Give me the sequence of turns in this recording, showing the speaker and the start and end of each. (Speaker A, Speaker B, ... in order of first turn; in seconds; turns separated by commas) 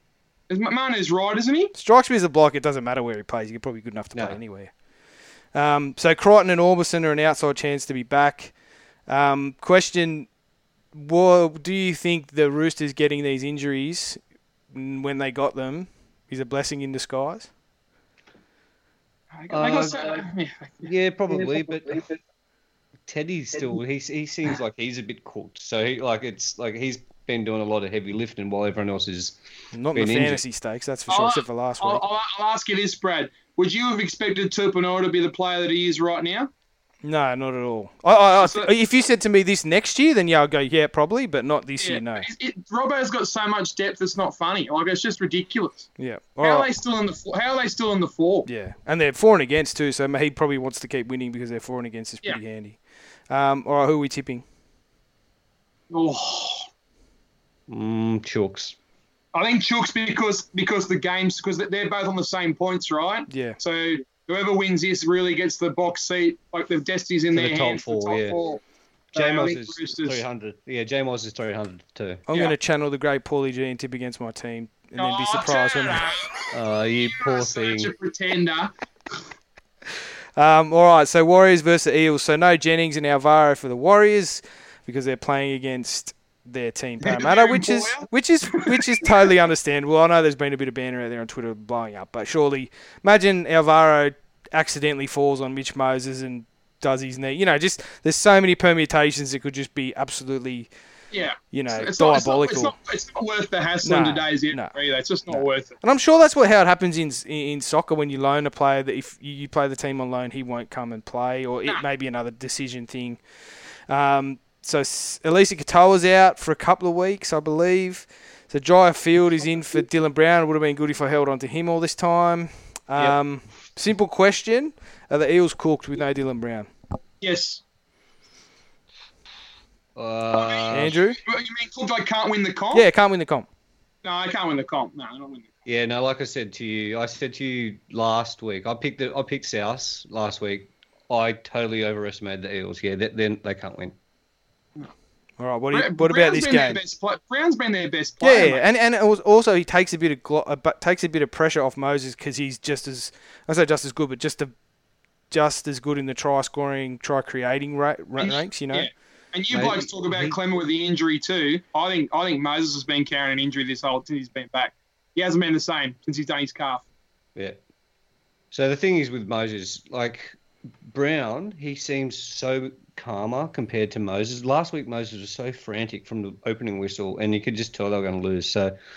Speaker A: 0.5-1.7, Speaker B: 1.8-4.7, Speaker C: 4.1-4.4, Speaker B: 5.5-8.5, Speaker B: 9.1-10.3, Speaker B: 10.9-14.2, Speaker B: 14.7-17.5, Speaker A: 19.3-20.9, Speaker C: 19.5-20.2, Speaker C: 20.8-22.1, Speaker C: 23.1-29.4, Speaker B: 29.7-32.0, Speaker C: 29.9-30.4, Speaker A: 31.1-36.5, Speaker B: 37.0-42.3, Speaker A: 38.4-38.7, Speaker A: 41.8-45.9, Speaker B: 46.0-46.7, Speaker A: 46.4-48.5, Speaker B: 48.5-52.8, Speaker B: 53.3-54.4, Speaker A: 55.9-56.7, Speaker C: 57.7-58.8, Speaker A: 59.3-68.6, Speaker B: 63.3-63.6, Speaker C: 67.3-68.4, Speaker A: 69.1-70.2, Speaker C: 69.2-72.2, Speaker B: 72.3-76.1, Speaker A: 75.0-78.7, Speaker C: 76.5-77.9, Speaker B: 80.4-100.7, Speaker A: 87.0-89.3, Speaker A: 101.1-105.8, Speaker B: 101.5-102.7, Speaker B: 103.8-104.7, Speaker B: 105.3-113.2, Speaker B: 113.9-126.7, Speaker A: 127.2-127.6, Speaker C: 129.9-131.0, Speaker A: 130.3-132.9, Speaker B: 130.7-131.2, Speaker B: 132.7-133.5, Speaker A: 134.0-135.5, Speaker C: 135.7-143.9, Speaker B: 145.4-146.8, Speaker A: 145.7-148.6, Speaker B: 148.2-154.5, Speaker B: 155.3-158.9, Speaker A: 158.2-166.8, Speaker C: 159.5-160.4, Speaker C: 168.5-178.8